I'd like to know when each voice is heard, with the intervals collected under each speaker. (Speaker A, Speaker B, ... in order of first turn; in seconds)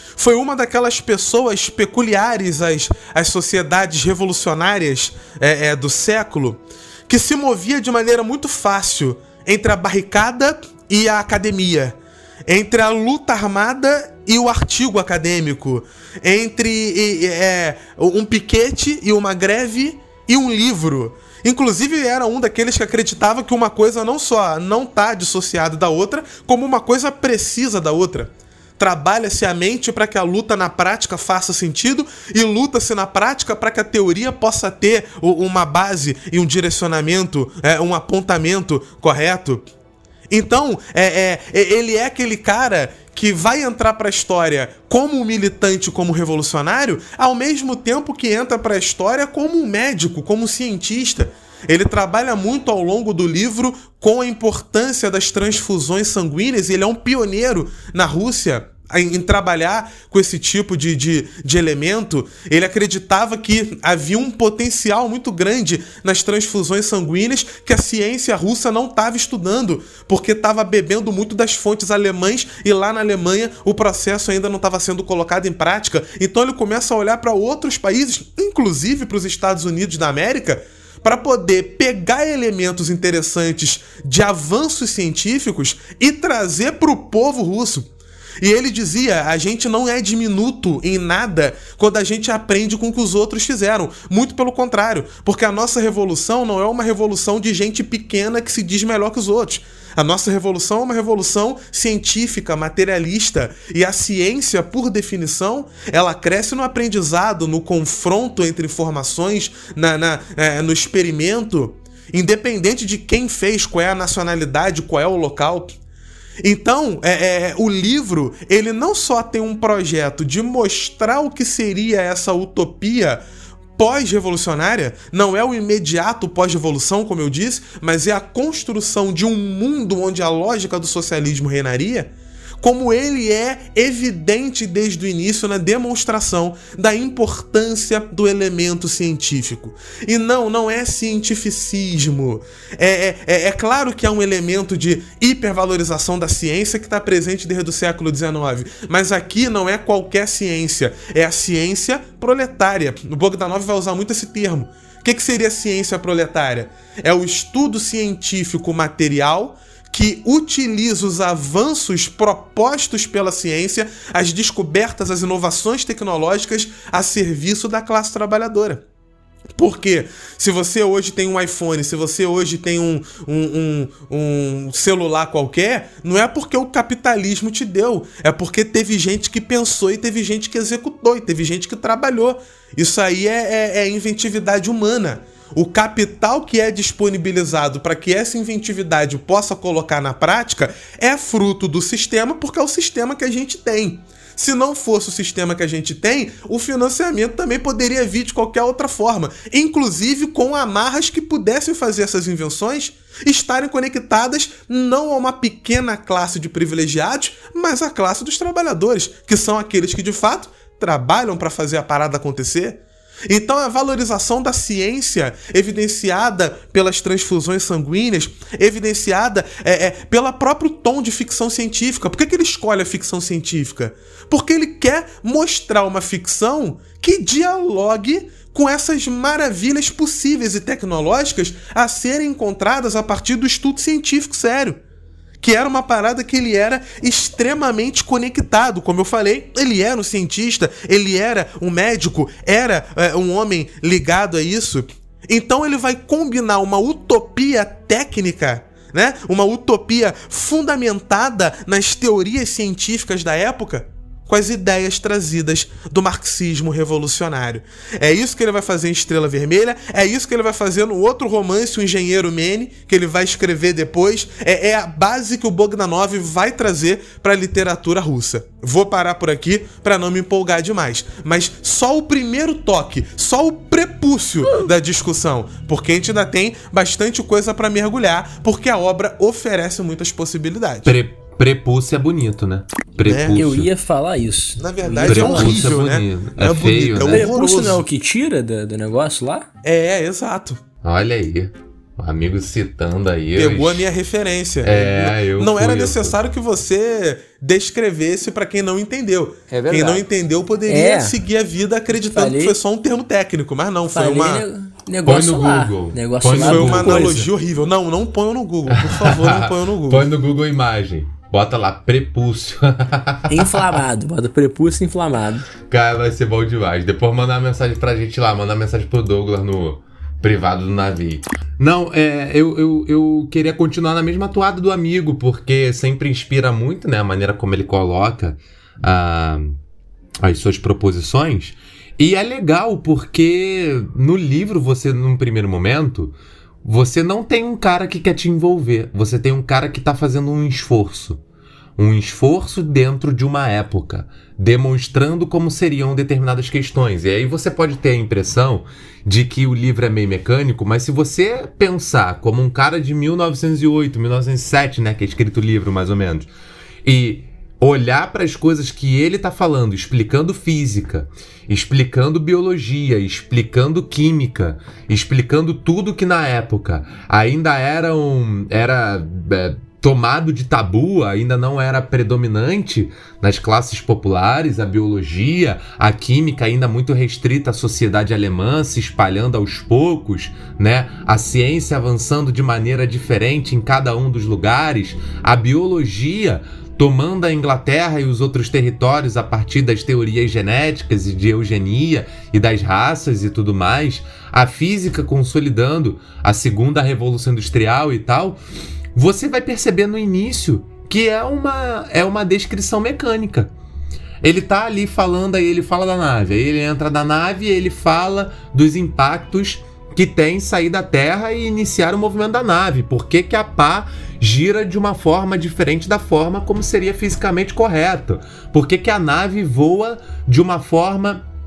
Speaker A: 0.2-39.6, 40.3-87.9, 88.4-115.7, 116.4-123.2, 123.8-168.8, 169.6-234.8, 235.4-281.0, 283.0-283.4, 284.6-287.8, 289.6-290.6, 293.4-304.4, 306.3-310.1
Speaker B: 280.8-283.7, 285.1-287.3, 290.8-293.9, 294.6-296.2, 305.1-307.3, 308.7-313.8, 315.6-329.6, 330.2-341.2, 341.8-356.3, 356.8-398.4, 398.9-403.5, 404.2-421.2
Speaker C: 283.3-285.8, 287.1-289.5, 299.5-300.0, 300.7-301.1, 302.1-302.6, 303.9-307.1, 313.3-315.5